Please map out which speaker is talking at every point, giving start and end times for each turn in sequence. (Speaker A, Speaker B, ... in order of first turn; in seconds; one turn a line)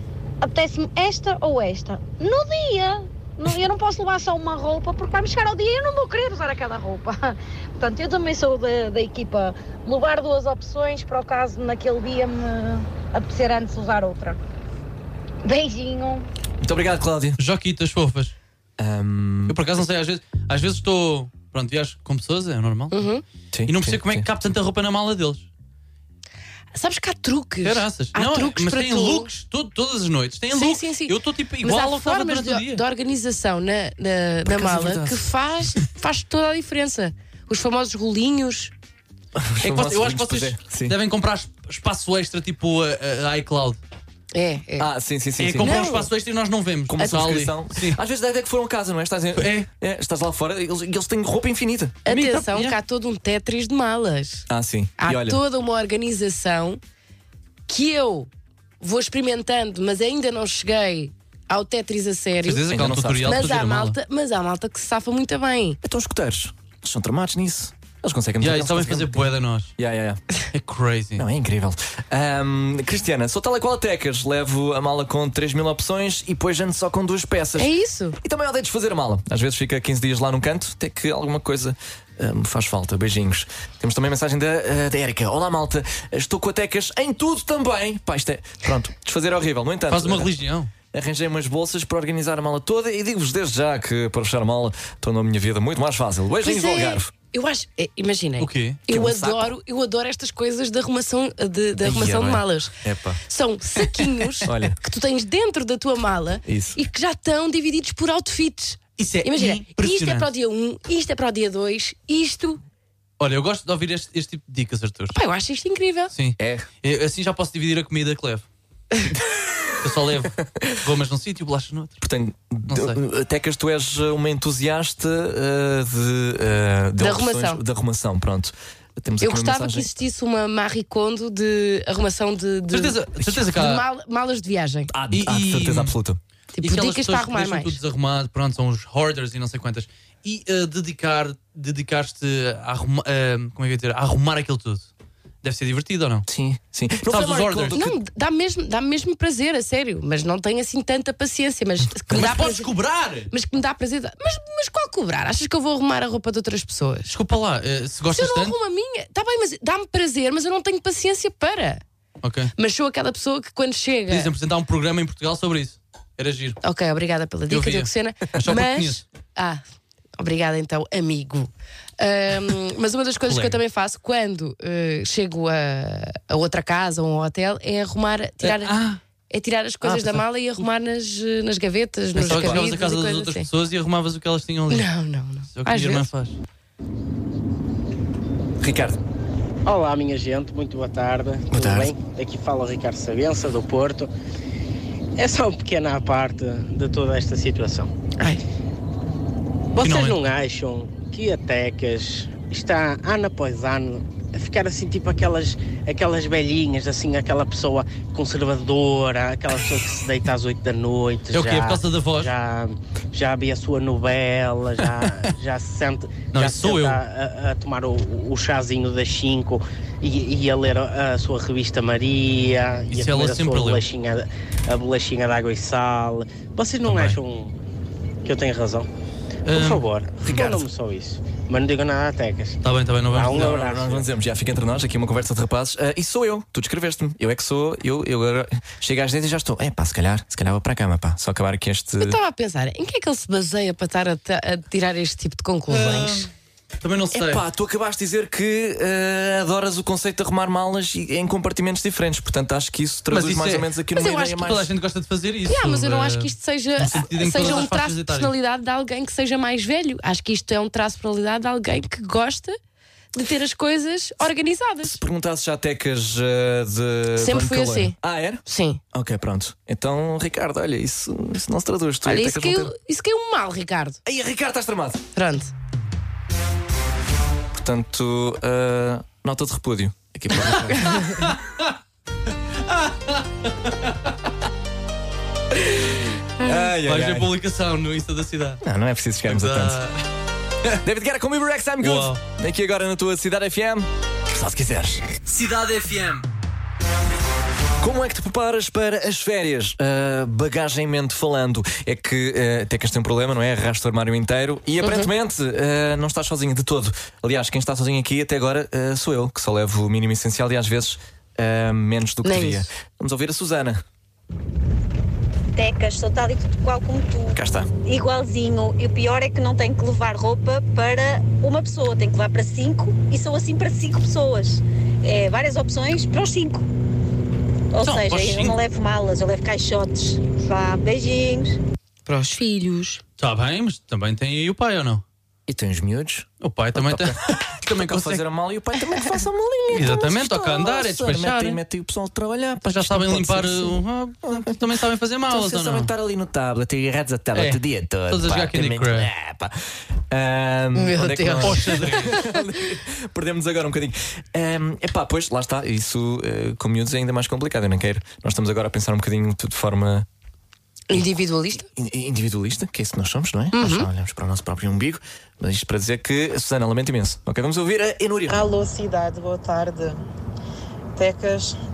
Speaker A: 0.4-14.4
Speaker A: 15.4-16.3
Speaker B: 16.6-17.4
Speaker C: 17.4-18.4
Speaker B: 18.8-19.6
Speaker C: 19.5-22.9
Speaker D: 22.9-23.2
Speaker B: 23.5-24.3
Speaker C: 23.7-25.5
Speaker D: 26.7-29.3
Speaker C: 27.6-32.8
Speaker D: 30.5-38.7
Speaker C: 34.5-35.2
Speaker B: 39.4-41.0
Speaker C: 39.6-43.8
Speaker D: 44.3-44.9
Speaker B: 44.8-45.9
Speaker C: 45.4-48.0
Speaker D: 45.6-46.1
Speaker B: 46.9-52.0
Speaker C: 49.4-49.7
Speaker D: 52.0-54.5
Speaker C: 52.1-52.8
Speaker B: 54.5-55.4
Speaker D: 55.0-56.8
Speaker D: 57.7-58.3
Speaker D: 58.8-62.7
Speaker C: 62.5-64.0
Speaker B: 62.7-63.6
Speaker D: 63.2-65.8
Speaker B: 65.8-70.2
Speaker C: 68.4-69.7
Speaker C: 70.5-71.2
Speaker B: 71.2-90.3
Speaker D: 77.6-78.2
Speaker C: 89.9-90.7
Speaker B: 90.9-97.1
Speaker D: 96.4-102.7
Speaker C: 98.4-98.8
Speaker B: 98.9-99.5
Speaker B: 101.8-103.2
Speaker D: 103.3-112.6
Speaker B: 104.5-104.8
Speaker B: 106.5-106.8
Speaker C: 109.0-110.3
Speaker C: 113.2-115.2
Speaker D: 115.1-116.1
Speaker C: 116.1-118.5
Speaker B: 116.4-116.7
Speaker B: 119.2-119.8
Speaker C: 119.8-122.0
Speaker B: 122.0-129.9
Speaker C: 122.7-123.0
Speaker D: 127.0-127.6
Speaker D: 129.2-134.9
Speaker C: 132.7-133.9
Speaker B: 134.9-136.2
Speaker C: 135.1-135.9
Speaker D: 136.5-137.8
Speaker C: 136.6-144.9
Speaker C: 145.4-146.3
Speaker B: 146.3-148.0
Speaker C: 147.1-147.8
Speaker D: 147.7-152.7
Speaker C: 152.1-153.3
Speaker D: 153.3-157.1
Speaker C: 157.1-158.6
Speaker D: 158.1-161.8
Speaker C: 162.2-162.5
Speaker D: 162.6-164.3
Speaker C: 164.1-166.6
Speaker D: 166.6-169.6
Speaker C: 167.5-169.0
Speaker D: 170.2-178.8
Speaker C: 173.3-173.6
Speaker C: 178.4-179.0
Speaker D: 179.3-183.5
Speaker C: 179.8-180.2
Speaker C: 182.2-184.9
Speaker B: 182.2-182.7
Speaker D: 184.7-186.1
Speaker C: 185.6-186.4
Speaker B: 188.6-189.0
Speaker E: 189.7-194.1
Speaker B: 191.5-191.9
Speaker E: 195.2-197.9
Speaker E: 199.7-227.6
Speaker C: 199.8-200.2
Speaker C: 211.3-212.3
Speaker C: 216.3-217.0
Speaker C: 222.9-223.8
Speaker C: 226.9-227.2
Speaker E: 228.2-228.9
Speaker C: 229.5-230.5
Speaker E: 229.5-232.6
Speaker B: 230.2-230.6
Speaker C: 232.6-233.7
Speaker E: 233.1-234.1
Speaker B: 233.3-242.2
Speaker D: 242.0-246.2
Speaker C: 245.7-246.3
Speaker C: 246.8-247.4
Speaker B: 247.1-254.7
Speaker C: 253.1-258.3
Speaker D: 255.5-262.6
Speaker B: 257.4-257.7
Speaker D: 263.1-265.0
Speaker B: 264.8-272.7
Speaker D: 267.2-268.8
Speaker D: 272.1-274.0
Speaker B: 274.1-275.0
Speaker D: 275.2-275.5
Speaker B: 277.5-281.2
Speaker C: 280.5-281.7
Speaker C: 282.6-284.1
Speaker B: 285.6-287.3
Speaker C: 286.8-288.6
Speaker B: 288.6-289.8
Speaker C: 289.3-290.0
Speaker B: 290.8-295.1
Speaker C: 291.8-292.2
Speaker C: 295.3-296.3
Speaker B: 297.8-313.8
Speaker D: 304.8-305.1
Speaker D: 312.2-312.7
Speaker F: 315.5-326.7
Speaker B: 317.3-317.7
Speaker F: 327.7-331.6
Speaker C: 327.8-328.6
Speaker D: 332.1-333.0
Speaker C: 333.2-335.0
Speaker B: 335.5-344.6
Speaker C: 336.4-338.2
Speaker C: 339.7-341.6
Speaker C: 342.7-345.9
Speaker B: 345.3-349.6
Speaker C: 347.3-349.1
Speaker B: 350.1-360.1
Speaker D: 350.8-352.3
Speaker C: 351.4-352.2
Speaker D: 360.9-361.7
Speaker B: 361.6-368.4
Speaker D: 363.5-363.9
Speaker G: 368.3-370.0
Speaker G: 370.9-371.6